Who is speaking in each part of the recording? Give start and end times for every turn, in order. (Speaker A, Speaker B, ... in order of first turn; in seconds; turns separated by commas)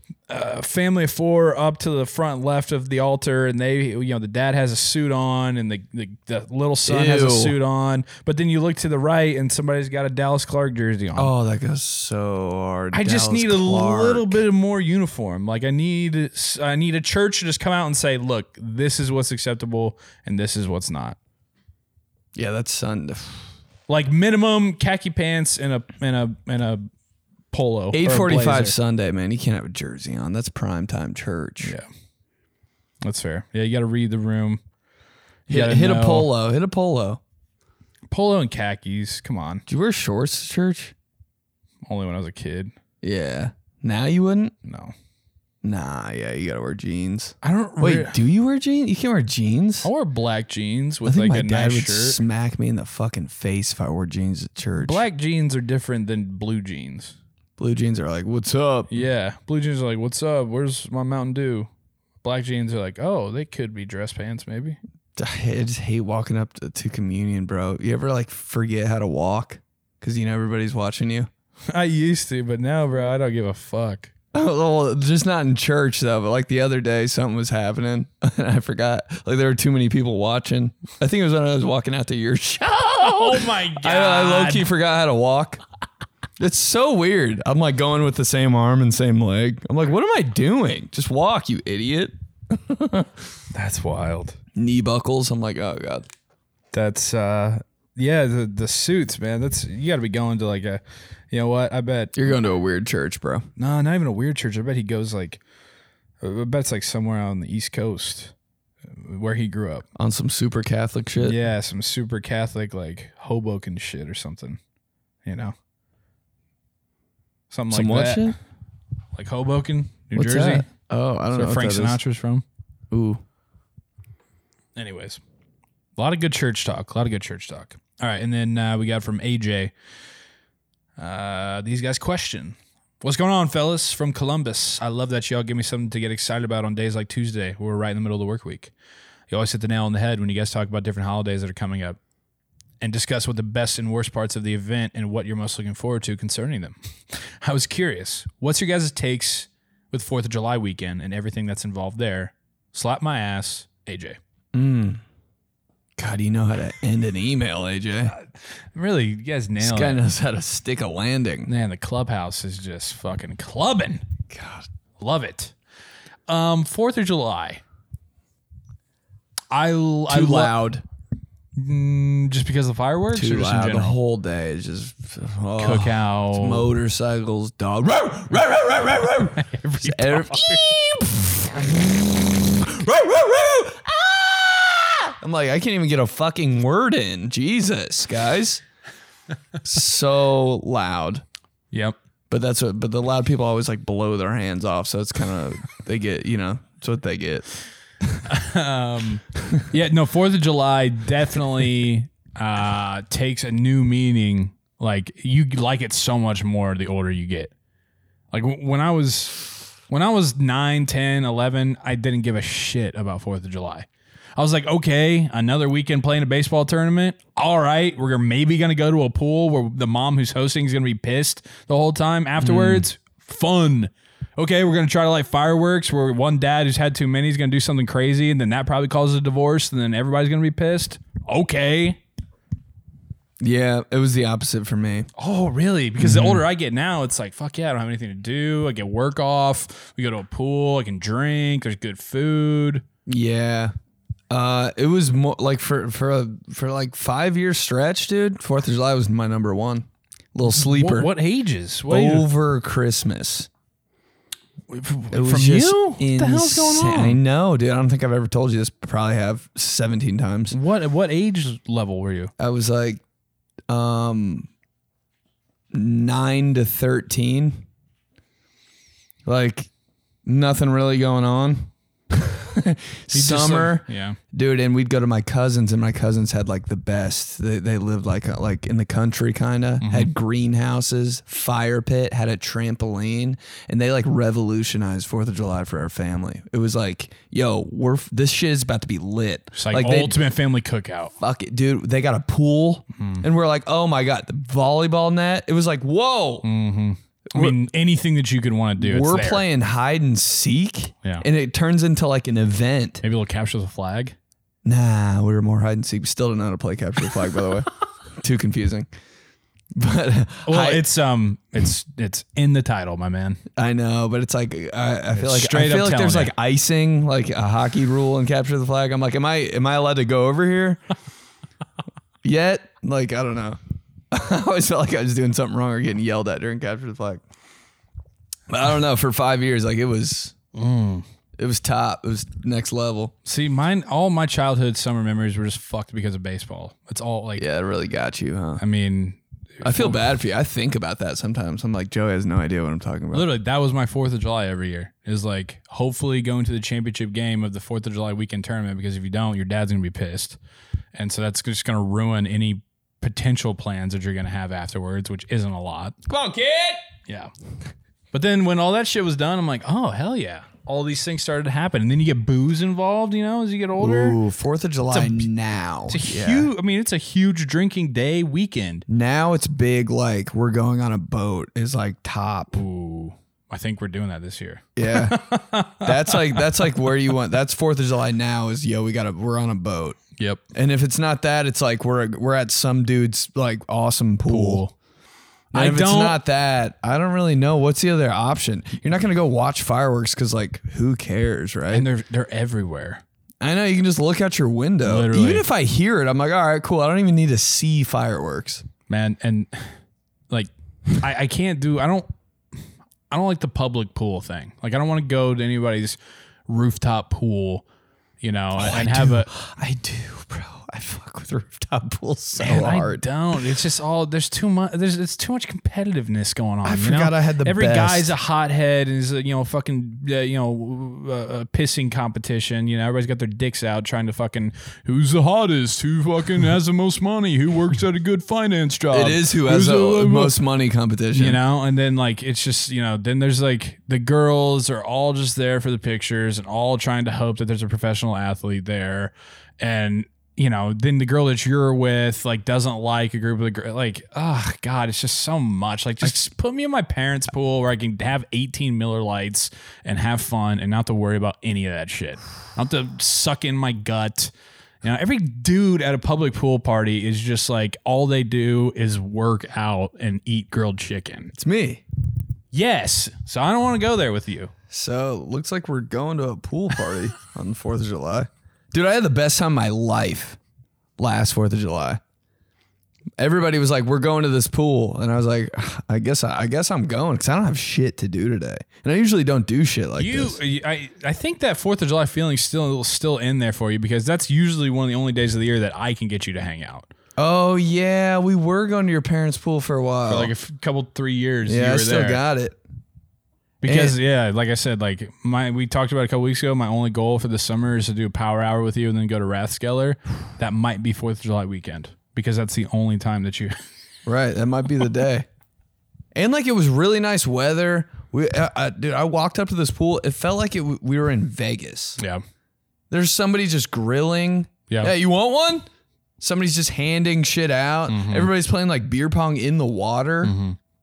Speaker A: 0.3-11.3, Speaker B: 6.8-7.5, Speaker B: 11.1-14.4, Speaker A: 12.9-21.2, Speaker B: 22.3-23.4, Speaker A: 23.9-26.8, Speaker A: 27.5-28.8, Speaker B: 27.9-31.7, Speaker A: 31.6-31.9, Speaker A: 33.0-34.6, Speaker A: 35.5-36.3, Speaker B: 35.5-37.2, Speaker A: 38.1-39.6, Speaker B: 39.7-40.9, Speaker A: 41.8-42.7, Speaker B: 43.0-44.5, Speaker A: 44.6-44.9, Speaker B: 45.6-49.9, Speaker A: 47.4-48.2, Speaker A: 49.8-52.2, Speaker B: 51.0-55.0, Speaker A: 54.8-57.1, Speaker B: 57.6-58.9, Speaker A: 58.9-61.7, Speaker A: 62.2-64.8, Speaker B: 65.2-71.3, Speaker A: 71.7-74.1, Speaker B: 74.3-85.6, Speaker A: 83.0-84.7, Speaker B: 86.4-93.1, Speaker A: 93.5-94.4, Speaker B: 94.5-96.1, Speaker A: 96.7-102.3, Speaker B: 102.2-103.5, Speaker A: 103.6-105.4, Speaker A: 106.2-108.3, Speaker A: 108.8-109.8, Speaker B: 110.0-111.4, Speaker A: 111.2-114.6, Speaker A: 115.2-115.5, Speaker A: 117.5-118.3, Speaker B: 117.7-118.3, Speaker A: 119.1-120.7, Speaker B: 120.1-122.0, Speaker A: 121.3-122.4, Speaker B: 122.9-123.2, Speaker A: 124.7-125.2, Speaker A: 126.0-129.7, Speaker A: 131.0-138.7, Speaker A: 139.3-142.0, Speaker A: 142.8-154.2, Speaker B: 154.5-155.0, Speaker B: 156.0-158.1, Speaker A: 158.1-160.0, Speaker B: 159.6-161.5, Speaker A: 161.5-164.1, Speaker B: 164.3-164.7, Speaker A: 165.0-165.5, Speaker A: 166.3-167.6, Speaker A: 169.5-170.6, Speaker B: 170.1-170.8, Speaker A: 171.6-174.0, Speaker B: 173.1-188.6, Speaker A: 175.6-176.7, Speaker A: 179.3-180.8, Speaker B: 189.6-191.2, Speaker A: 191.7-192.0, Speaker B: 192.3-197.5, Speaker A: 198.2-207.5, Speaker A: 208.3-232.0, Speaker B: 222.4-222.8, Speaker B: 233.4-235.1, Speaker A: 235.2-242.8, Speaker B: 236.0-236.4, Speaker B: 243.1-243.7, Speaker B: 244.3-251.1, Speaker A: 250.5-252.3, Speaker B: 251.9-253.5, Speaker A: 254.7-257.2, Speaker B: 255.1-260.6, Speaker A: 260.5-262.3, Speaker B: 262.4-263.0, Speaker B: 263.7-264.5, Speaker B: 265.7-267.6, Speaker B: 269.2-269.7, Speaker B: 270.2-290.2, Speaker A: 273.1-274.2, Speaker A: 279.8-280.1, Speaker A: 289.5-291.1, Speaker B: 291.2-296.5, Speaker A: 293.0-293.2, Speaker A: 296.4-299.4, Speaker B: 298.8-303.0, Speaker A: 303.0-304.1, Speaker B: 304.6-307.7, Speaker B: 308.2-308.9, Speaker B: 309.8-310.8, Speaker A: 310.5-313.4, Speaker B: 313.6-320.8, Speaker A: 315.1-316.3, Speaker B: 322.2-323.6, Speaker B: 324.1-327.2, Speaker B: 328.5-330.4, Speaker A: 330.5-331.1, Speaker B: 331.4-333.1, Speaker A: 333.2-337.4, Speaker B: 337.4-338.6, Speaker A: 338.6-340.1, Speaker B: 339.6-343.3, Speaker A: 343.1-350.4, Speaker A: 350.9-355.9, Speaker B: 356.1-356.8, Speaker A: 357.1-357.3, Speaker A: 358.1-364.2, Speaker B: 363.8-366.5, Speaker A: 364.9-365.3, Speaker A: 365.9-368.9, Speaker B: 368.9-372.6, Speaker A: 372.5-376.6, Speaker B: 374.8-375.2, Speaker B: 375.8-380.0, Speaker A: 380.2-380.4, Speaker B: 380.5-384.6, Speaker A: 384.3-384.7, Speaker A: 385.5-386.2, Speaker B: 385.5-391.9, Speaker A: 391.7-393.0, Speaker B: 393.4-398.6, Speaker A: 394.8-395.5, Speaker A: 398.9-399.7, Speaker A: 400.3-402.1, Speaker A: 403.1-407.6, Speaker A: 408.2-409.3, Speaker B: 408.6-413.1, Speaker A: 412.4-430.4, Speaker B: 416.6-418.1, Speaker B: 428.9-431.4, Speaker A: 431.1-454.3, Speaker A: 454.8-461.3, Speaker B: 461.3-461.8, Speaker A: 462.5-464.5, Speaker B: 464.7-470.4, Speaker B: 471.0-472.0, Speaker B: 473.2-480.4, Speaker A: 480.0-486.9, Speaker B: 487.2-490.3, Speaker A: 490.1-492.2, Speaker B: 491.4-492.6, Speaker A: 493.6-503.6, Speaker B: 493.6-493.9, Speaker B: 504.1-505.3, Speaker B: 506.1-512.0, Speaker B: 512.9-515.6, Speaker A: 514.7-514.9, Speaker B: 516.2-520.3, Speaker A: 517.9-518.3, Speaker A: 520.2-520.6